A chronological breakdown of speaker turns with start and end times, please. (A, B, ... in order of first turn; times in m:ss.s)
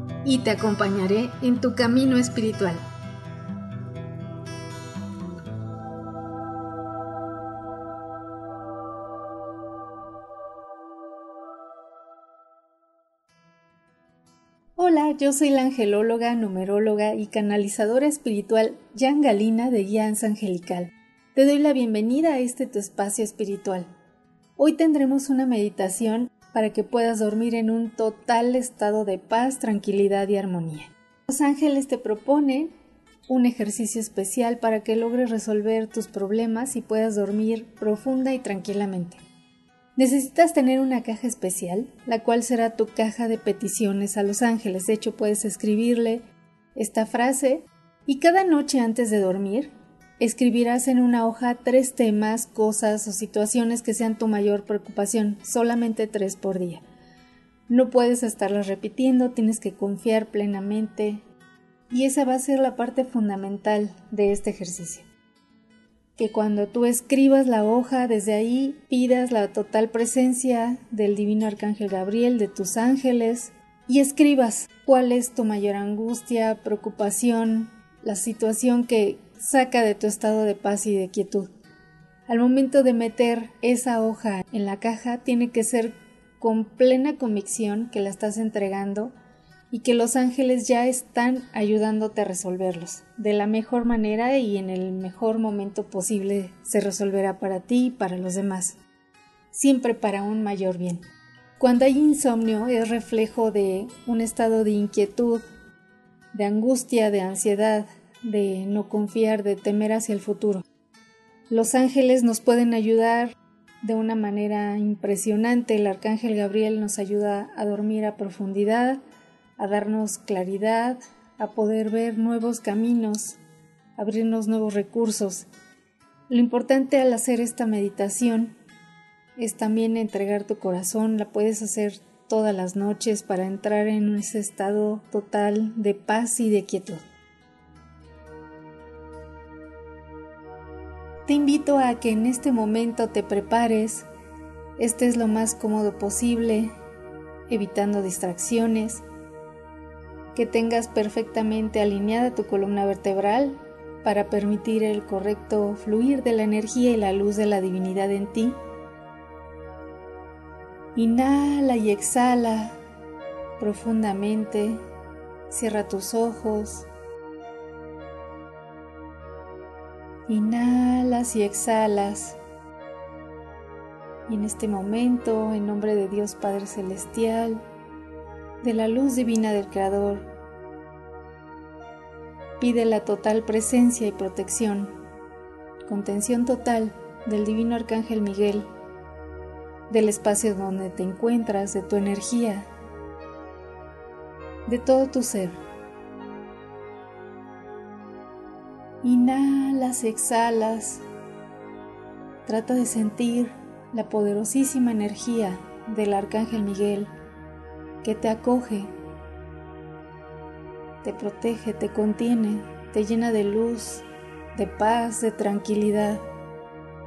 0:00.2-0:02.8 A
0:14.8-0:23.9 A
0:24.6-0:32.7 A
0:33.3-0:39.2 A
0:40.0-0:46.2 A
0:46.7-0:56.8 A
0:57.7-1:01.2 A
1:01.9-1:05.1 A
1:06.2-1:21.5 A
1:22.3-1:29.1 A
1:29.7-1:38.8 A
1:39.5-1:41.0 A
1:41.6-1:45.4 A
1:46.3-1:50.6 A
1:51.5-1:59.0 A
1:59.6-2:03.4 A
2:04.0-2:05.5 A
2:06.3-2:08.5 A
2:09.4-2:17.0 A
2:21.2-2:24.1 A
2:24.8-2:26.7 A
2:27.5-2:29.0 A
2:30.3-2:38.6 A
2:40.9-2:42.8 A
2:43.6-2:44.8 A
2:45.5-2:46.9 A
2:50.3-2:52.4 A
2:54.3-2:57.6 A
2:58.6-3:00.3 A
3:02.6-3:04.9 A
3:05.8-3:08.7 A
3:09.9-3:12.7 A
3:14.6-3:15.6 A
3:19.0-3:21.0 A
3:22.4-3:27.1 A
3:28.0-3:28.9 A
3:31.0-3:36.2 A